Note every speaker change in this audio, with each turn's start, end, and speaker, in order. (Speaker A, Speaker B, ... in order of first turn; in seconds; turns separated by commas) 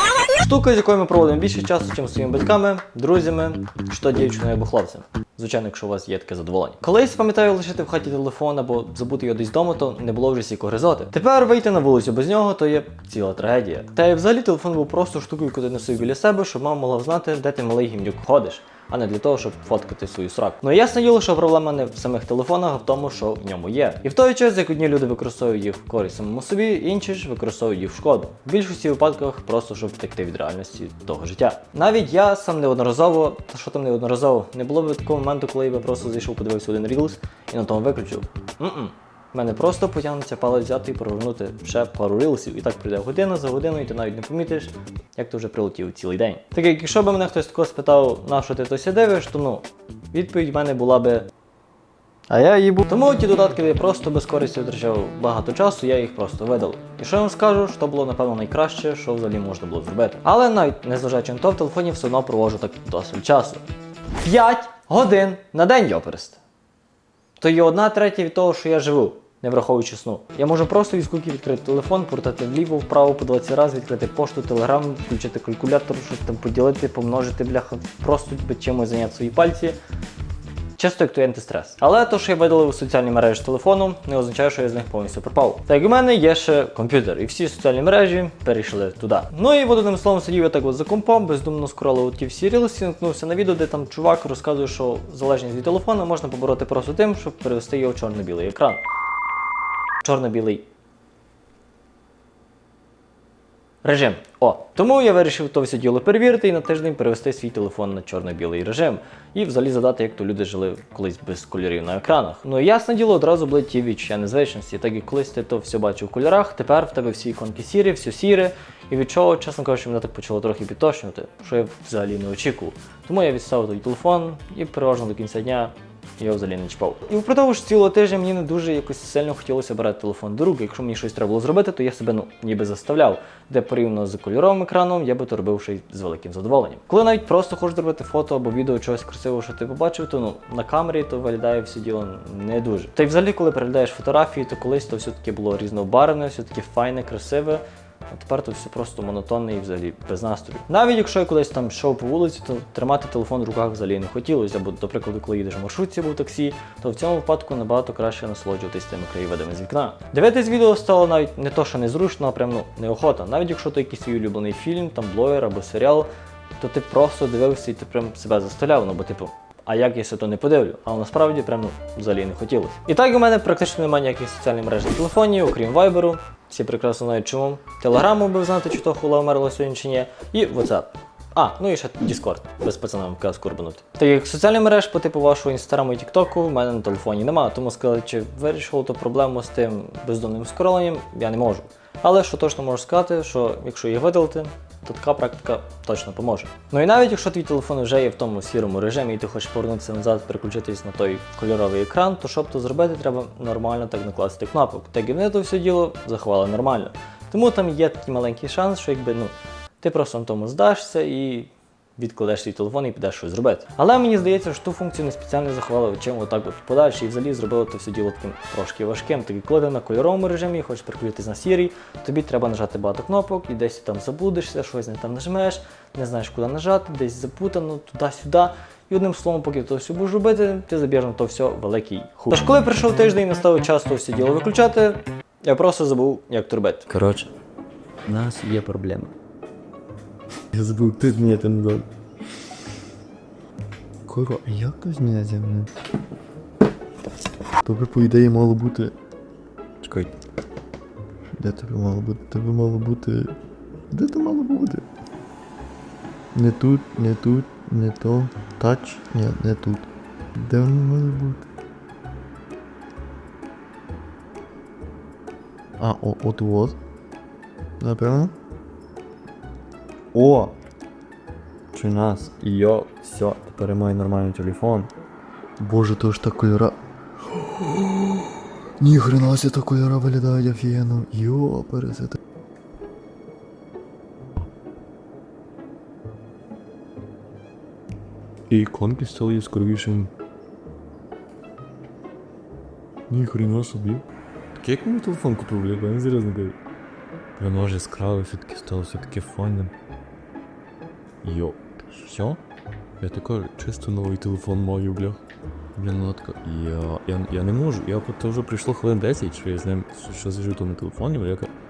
Speaker A: 0.3-51.3, Speaker A: 52.3-63.6, Speaker A: 64.2-66.4, Speaker A: 67.4-79.8, Speaker A: 80.8-98.8, Speaker A: 100.0-100.7, Speaker A: 103.8-236.9, Speaker B: 238.1-239.1, Speaker B: 240.5-241.8, Speaker B: 244.1-245.7, Speaker B: 247.6-248.9, Speaker B: 251.4-253.3, Speaker B: 253.9-254.8, Speaker B: 256.3-261.4, Speaker B: 265.8-266.8, Speaker B: 267.8-268.3, Speaker B: 270.1-270.5, Speaker B: 271.7-274.9, Speaker C: 273.3-274.7, Speaker B: 275.6-276.8, Speaker B: 277.6-278.2, Speaker B: 278.8-282.2, Speaker B: 288.5-289.9, Speaker C: 288.5-290.1, Speaker B: 293.1-294.0, Speaker C: 293.1-294.0, Speaker C: 294.6-296.5, Speaker B: 294.6-296.5, Speaker B: 297.4-299.7, Speaker C: 297.4-299.7, Speaker C: 301.2-301.6, Speaker B: 302.0-302.3, Speaker C: 302.1-302.4, Speaker C: 303.0-305.2, Speaker B: 304.4-305.0, Speaker B: 305.8-306.2, Speaker C: 305.8-311.5